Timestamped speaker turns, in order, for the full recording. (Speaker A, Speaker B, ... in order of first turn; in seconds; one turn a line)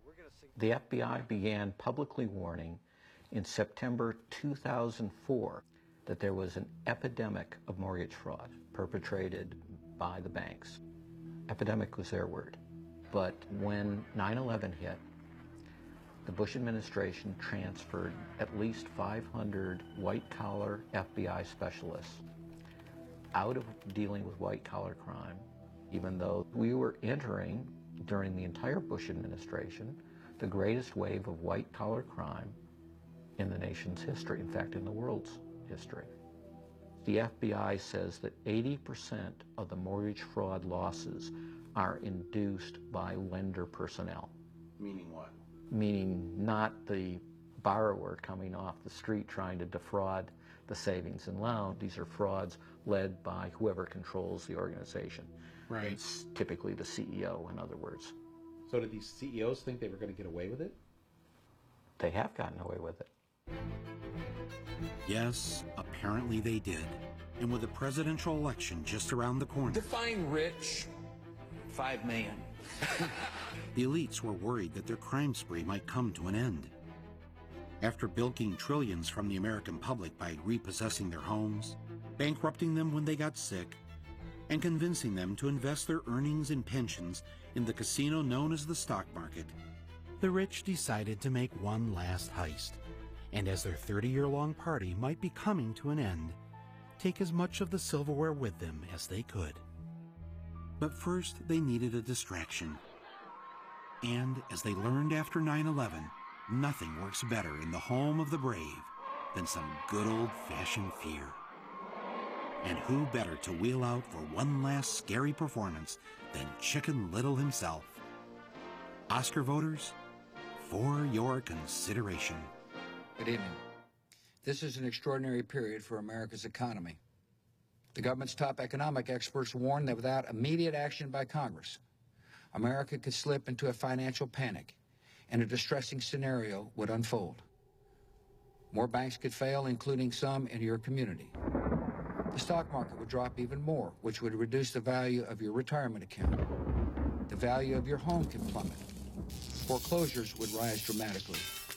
Speaker A: 0.6-10.8
Speaker A: 11.5-12.6
Speaker A: 13.1-15.0
Speaker A: 16.2-22.2
Speaker A: 23.3-32.6
Speaker A: 33.4-36.1
Speaker A: 37.0-44.3
Speaker B: 44.8-45.4
Speaker A: 45.7-58.1
Speaker B: 55.7-56.0
Speaker B: 58.7-60.8
Speaker A: 62.0-63.1
Speaker B: 65.0-69.9
Speaker B: 73.7-76.7
Speaker B: 77.8-83.8
Speaker B: 84.5-89.5
Speaker B: 90.2-92.8
Speaker B: 93.3-96.4
Speaker B: 97.0-99.6
Speaker B: 100.8-102.8
Speaker B: 104.0-111.4
Speaker B: 112.6-118.0
Speaker B: 119.1-119.9
Speaker B: 120.6-122.5
Speaker C: 123.2-123.6
Speaker C: 124.4-127.0
Speaker C: 127.9-131.8
Speaker C: 132.5-134.8
Speaker C: 135.3-137.4
Speaker C: 138.7-141.3
Speaker C: 142.3-146.4
Speaker C: 147.3-148.9
Speaker C: 149.7-151.5